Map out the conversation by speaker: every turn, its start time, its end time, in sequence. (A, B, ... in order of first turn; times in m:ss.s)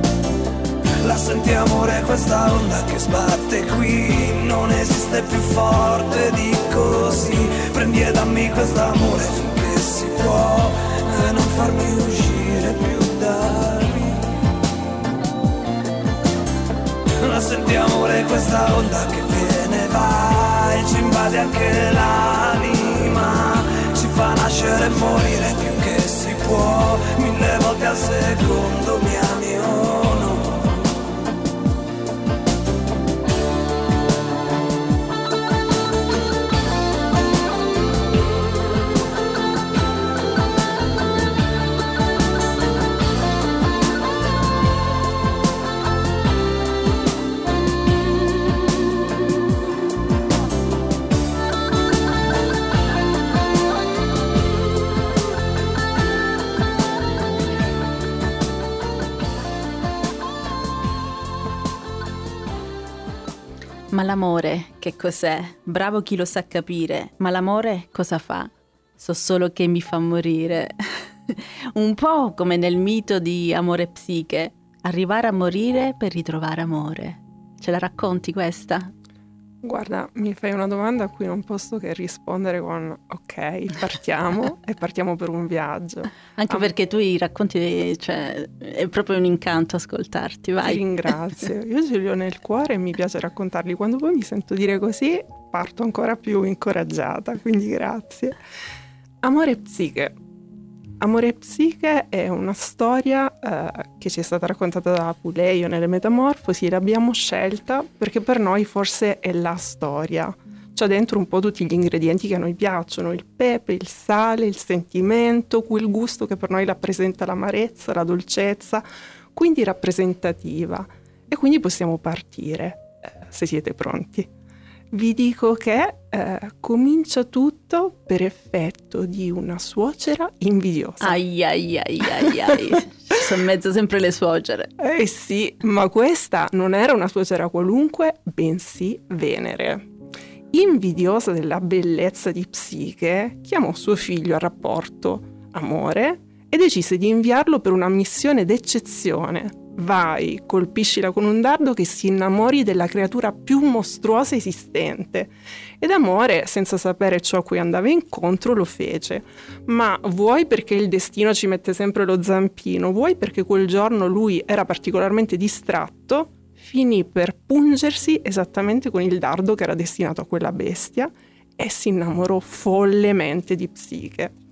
0:01.0-0:14.2 A
0:17.2-0:30.6 A
1:03.9-1:10.8 B
1:11.3-1:18.9 B
1:19.6-1:26.7 C
1:26.4-1:30.8 B
1:30.6-1:38.4 C
1:39.2-1:40.2 C
1:41.0-2:04.3 C
2:04.9-2:11.2 C
2:11.0-2:14.7 B
2:14.8-2:19.9 C
2:20.5-2:54.4 C